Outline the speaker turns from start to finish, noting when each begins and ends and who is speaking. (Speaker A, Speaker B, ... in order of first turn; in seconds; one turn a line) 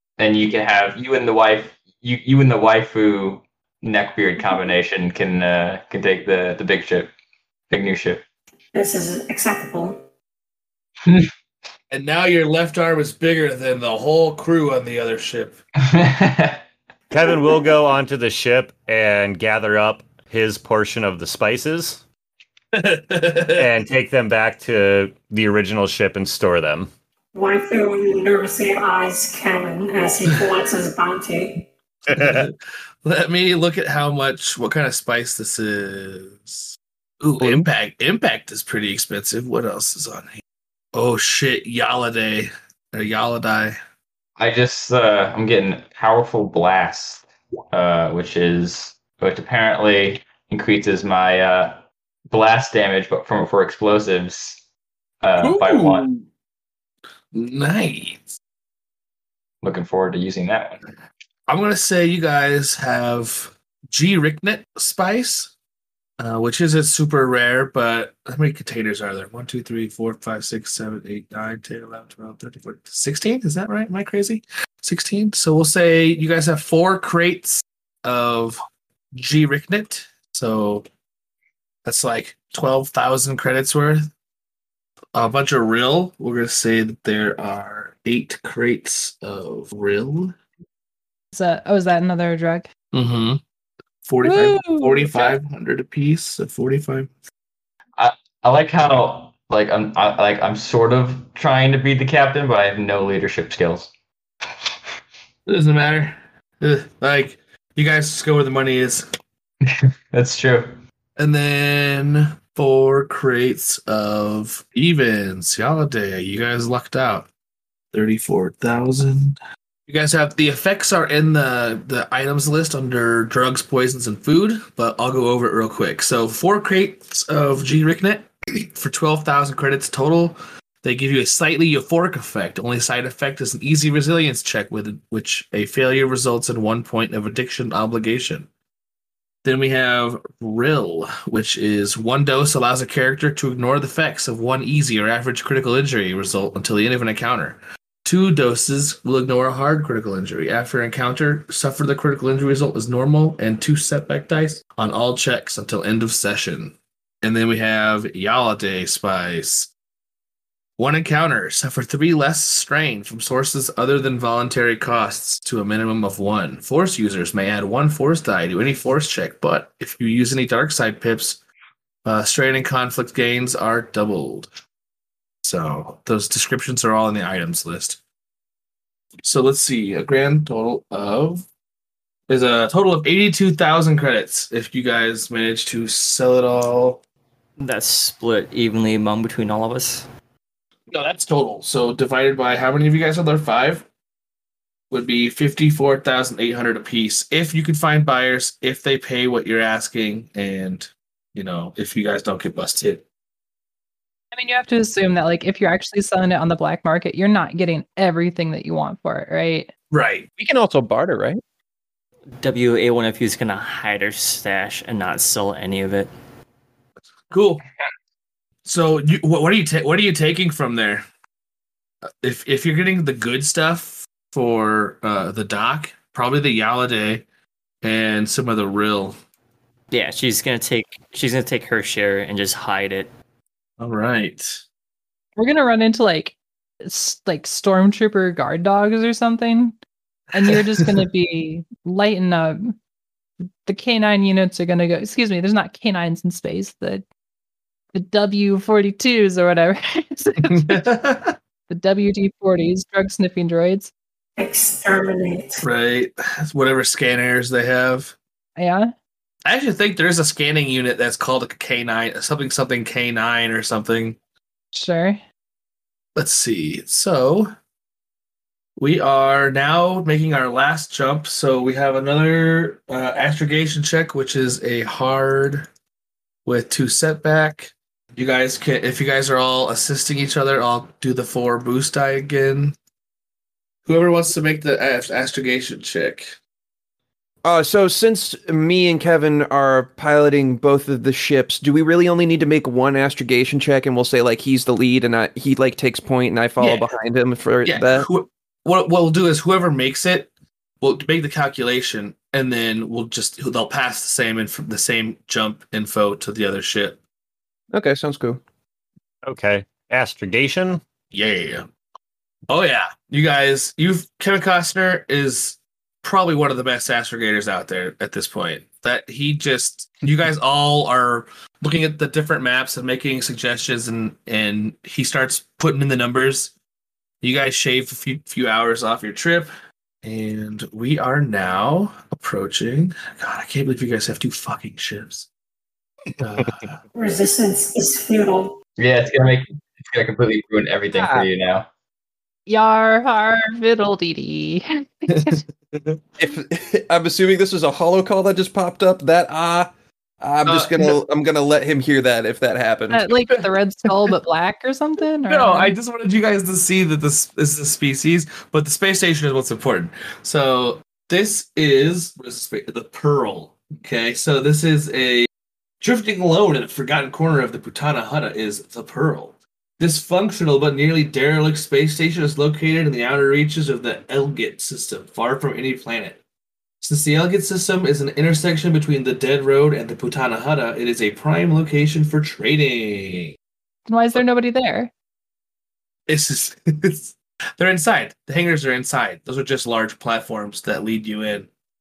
Speaker A: 0.2-7.1
Speaker A: 7.7-8.2
Speaker B: 8.7-10.0
Speaker C: 11.9-15.6
Speaker A: 15.8-16.6
Speaker D: 17.1-22.0
Speaker C: 22.7-23.7
Speaker D: 23.6-26.9
Speaker B: 27.3-31.7
Speaker D: 32.1-32.4
Speaker C: 32.1-40.4
Speaker C: 40.9-43.8
Speaker A: 44.4-54.6
Speaker A: 55.2-56.1
Speaker C: 55.4-56.2
Speaker C: 57.3-58.4
Speaker A: 59.6-60.8
Speaker C: 61.5-65.5
Speaker C: 66.2-78.6
Speaker C: 79.1-80.8
Speaker C: 81.8-84.1
Speaker C: 85.1-90.3
Speaker E: 91.3-92.7
Speaker C: 92.9-93.4
Speaker C: 94.0-97.1
Speaker E: 94.2-95.3
Speaker A: 98.0-103.9
Speaker C: 105.5-109.1
Speaker A: 109.6-110.8
Speaker C: 111.2-117.3
Speaker C: 117.9-138.5
Speaker C: 139.4-159.7
Speaker C: 160.8-171.4
Speaker C: 172.0-174.5
Speaker C: 175.4-178.0
Speaker C: 179.2-181.4
Speaker C: 182.3-187.0
Speaker F: 187.6-190.1
Speaker C: 190.9-193.8
Speaker C: 194.9-203.0
Speaker E: 204.3-209.7
Speaker C: 209.9-210.3
Speaker G: 210.4-211.4
Speaker F: 212.4-216.1
Speaker C: 217.3-217.6
Speaker C: 218.6-221.1
Speaker C: 222.2-227.2
Speaker C: 227.8-229.2
Speaker F: 229.9-233.1
Speaker C: 233.8-234.6
Speaker E: 235.4-239.8
Speaker E: 240.3-242.7
Speaker C: 240.4-240.9
Speaker E: 243.6-247.0
Speaker E: 247.9-250.8
Speaker C: 250.4-251.3
Speaker E: 251.7-253.9
Speaker B: 254.4-255.6
Speaker C: 255.6-258.1
Speaker E: 258.6-258.9
Speaker C: 259.4-264.2
Speaker E: 264.7-265.2
Speaker C: 266.1-267.5
Speaker C: 268.8-275.7
Speaker C: 276.4-282.8
Speaker C: 283.9-286.4
Speaker G: 287.4-298.1
Speaker C: 296.6-296.9
Speaker C: 297.6-307.0
Speaker G: 307.7-308.4
Speaker D: 309.2-310.8
Speaker C: 311.1-311.7
Speaker C: 312.5-326.5
Speaker C: 327.2-329.5
Speaker C: 330.0-335.3
Speaker C: 336.2-336.8
Speaker B: 336.9-338.6
Speaker A: 338.8-341.7
Speaker G: 341.0-341.2
Speaker E: 342.5-345.4
Speaker C: 345.1-346.0
Speaker G: 346.2-349.7
Speaker G: 350.2-353.1
Speaker C: 350.4-350.9
Speaker E: 352.9-355.7
Speaker C: 355.3-365.3
Speaker C: 365.8-376.2
Speaker C: 376.8-383.4
Speaker E: 383.9-384.9
Speaker C: 386.1-391.5